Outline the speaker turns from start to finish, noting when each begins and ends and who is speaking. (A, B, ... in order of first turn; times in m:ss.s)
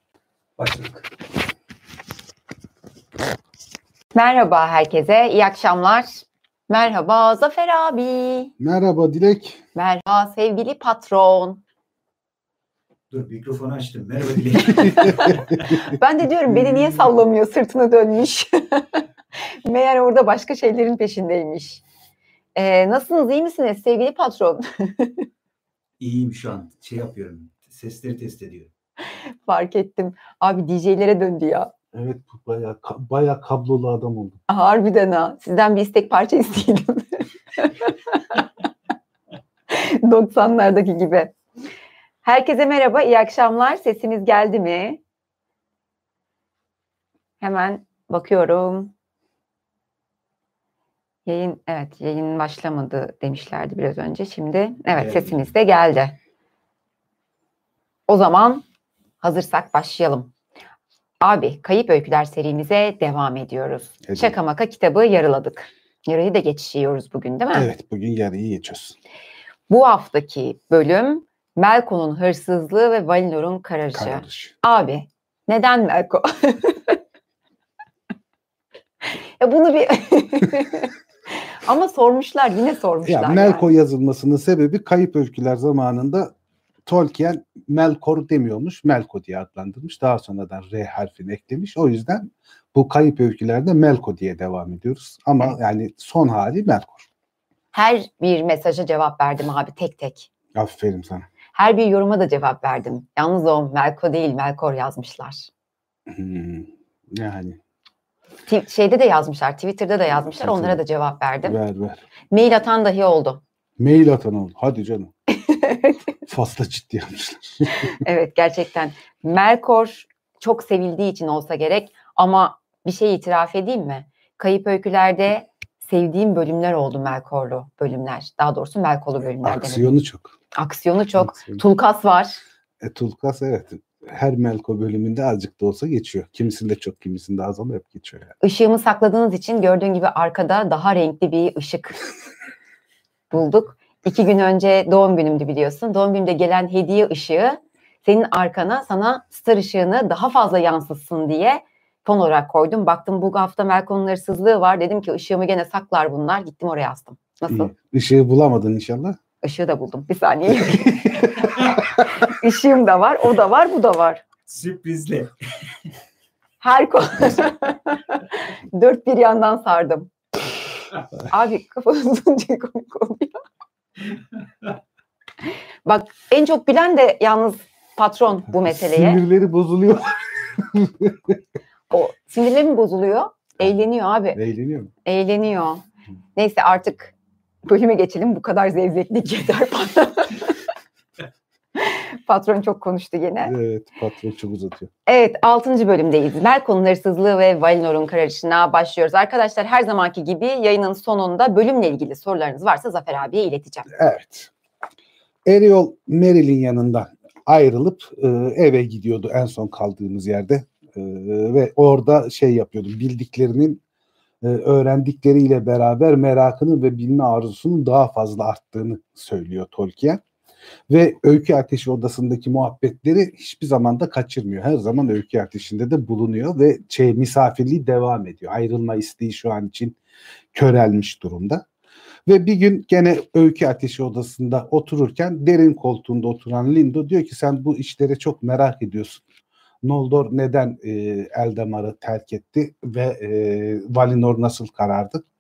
0:00.6-0:01.1 A
0:04.1-0:08.5 B
0:08.6-0:09.6 C
0:09.8-0:11.6 B
0:13.1-0:15.9 A
0:14.7-0:15.4 B
0:15.9-0:19.0 B
0:19.6-0:21.8 B
0:22.6-0:25.3 B
0:26.0-0:28.7 A
0:29.5-0:31.7 B
0:31.9-0:34.4 C
0:34.5-0:38.4 B
0:39.7-0:41.3 B
0:42.2-0:45.0 B
0:47.4-0:48.9 B
0:51.3-0:56.2 B
0:58.1-0:58.6 B
0:59.2-1:00.3 B
1:01.2-1:07.7 B
1:04.1-1:04.4 C
1:07.5-1:09.0 C
1:09.7-1:17.0 B
1:14.0-1:14.6 C
1:19.1-1:23.7 B
1:23.0-1:26.3 C
1:26.9-1:37.1 C
1:37.7-1:40.3 B
1:40.5-1:41.3 C
1:41.6-1:45.5 B
1:46.1-1:47.6 C
1:48.5-1:51.6 B
1:50.2-1:50.8 C
1:51.4-1:52.0 C
1:52.3-1:53.4 B
1:53.8-1:55.1 C
1:55.4-1:56.0 B
1:56.3-1:58.0 C
1:57.8-2:10.0 B
2:09.4-2:10.3 C
2:10.5-2:12.4 B
2:11.2-2:11.6 C
2:12.8-2:18.3 C
2:18.4-2:22.0 B
2:23.3-2:37.7 B
2:37.5-2:39.2 C
2:39.4-2:44.2 B
2:40.7-2:42.0 C
2:44.5-2:45.3 A
2:46.6-2:50.1 B
2:51.3-2:53.4 B
2:55.9-2:59.2 B
2:58.7-3:01.3 C
3:01.9-3:04.4 B
3:04.4-3:04.9 C
3:05.0-3:05.8 B
3:06.4-3:07.1 B
3:07.6-3:10.6 B
3:11.8-3:13.5 B
3:13.4-3:14.9 C
3:15.1-3:23.9 B
3:23.9-3:24.5 C
3:25.4-3:33.8 C
3:34.4-3:40.2 C
3:40.9-3:50.0 C
3:50.5-3:51.6 C
3:52.3-3:59.2 C
3:59.8-4:05.2 C